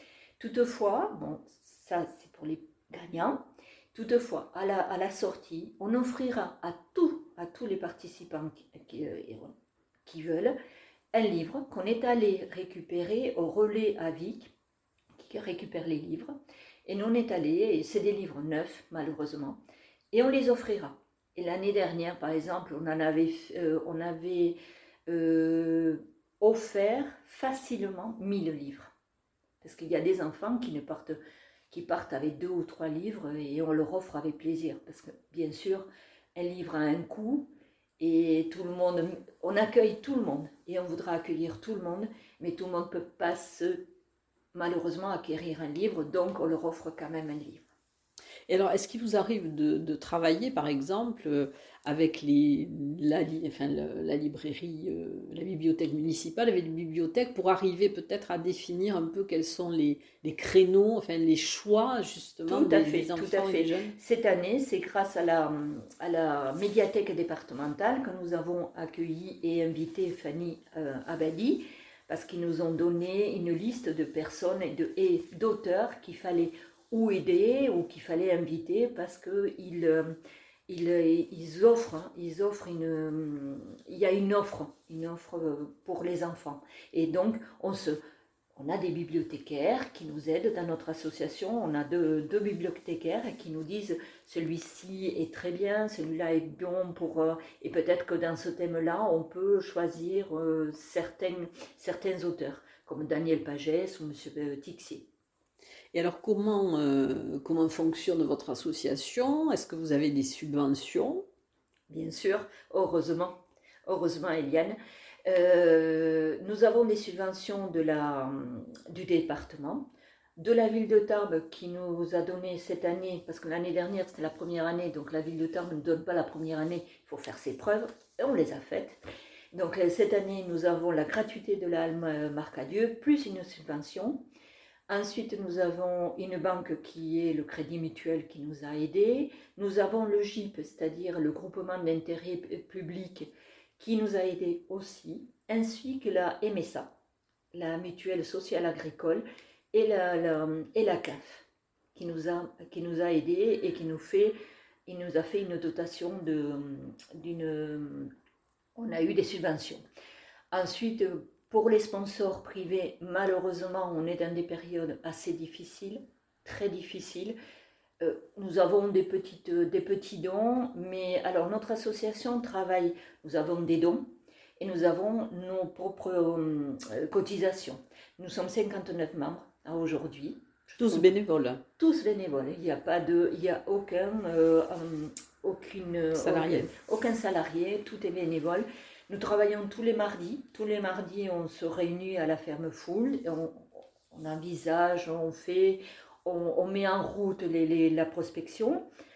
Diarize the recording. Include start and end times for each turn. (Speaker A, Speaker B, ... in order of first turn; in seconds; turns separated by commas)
Speaker A: 0.4-9.5, Speaker A: 10.1-10.6, Speaker A: 11.1-14.5, Speaker A: 15.2-16.3, Speaker A: 16.9-19.6, Speaker A: 20.1-28.9, Speaker A: 29.6-31.2, Speaker A: 31.7-43.9, Speaker A: 44.5-47.7, Speaker B: 48.5-64.0, Speaker A: 62.5-80.2, Speaker A: 80.7-88.0, Speaker A: 88.6-105.1, Speaker B: 105.9-111.3, Speaker A: 111.9-129.0, Speaker A: 129.5-134.2, Speaker A: 134.9-146.9, Speaker A: 147.5-158.1, Speaker A: 158.8-159.8, Speaker A: 160.5-167.4, Speaker A: 168.0-174.1, Speaker A: 174.6-181.1, Speaker B: 180.8-181.6, Speaker A: 181.8-198.8, Speaker B: 186.2-186.7